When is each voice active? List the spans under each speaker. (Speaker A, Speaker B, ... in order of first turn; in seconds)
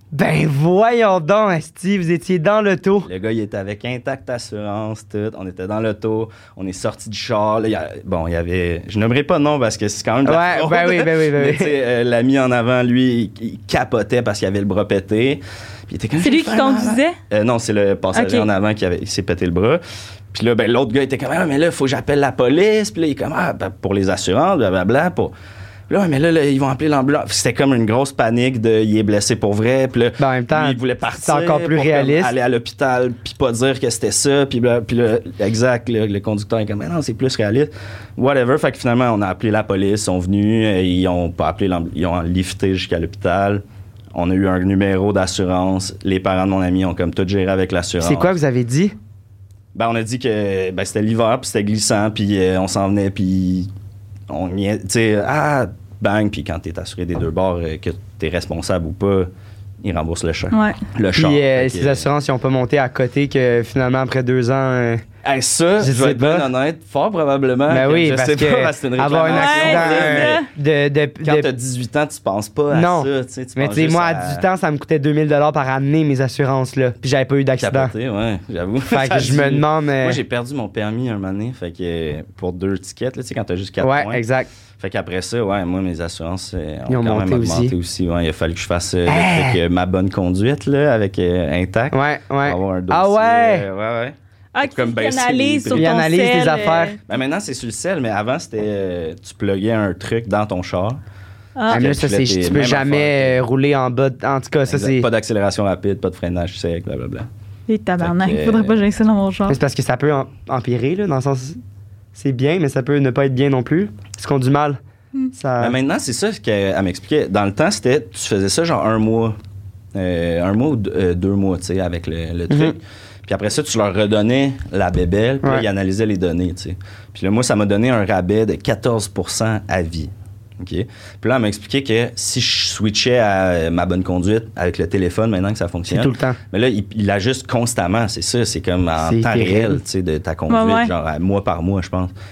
Speaker A: 0.1-3.1, 10.2-11.7, 30.2-32.3, 48.0-48.9, 61.1-65.0, 65.8-66.5, 67.7-71.5, 72.7-77.9, 78.9-80.2, 83.8-84.5, 86.9-87.7, 89.1-89.6, 91.9-93.7, 95.7-97.0, 101.7-105.1, 109.5-111.6, 112.1-114.8, 115.3-115.8, 122.5-122.8, 135.9-136.4, 139.0-139.8
Speaker B: 3.0-19.8, 20.3-25.3, 25.9-43.6, 44.1-48.3, 49.7-53.7, 54.3-59.3, 59.8-62.1, 65.2-70.4, 71.2-74.4, 77.6-84.2, 84.8-95.9, 97.1-101.0, 101.7-103.4, 104.7-107.3, 108.0-108.8, 115.6-119.3, 119.9-142.1
Speaker C: 16.2-17.1, 18.1-18.5, 60.5-60.8, 69.3-70.5, 94.5-97.0, 101.6-101.8, 107.7-109.6, 140.5-140.9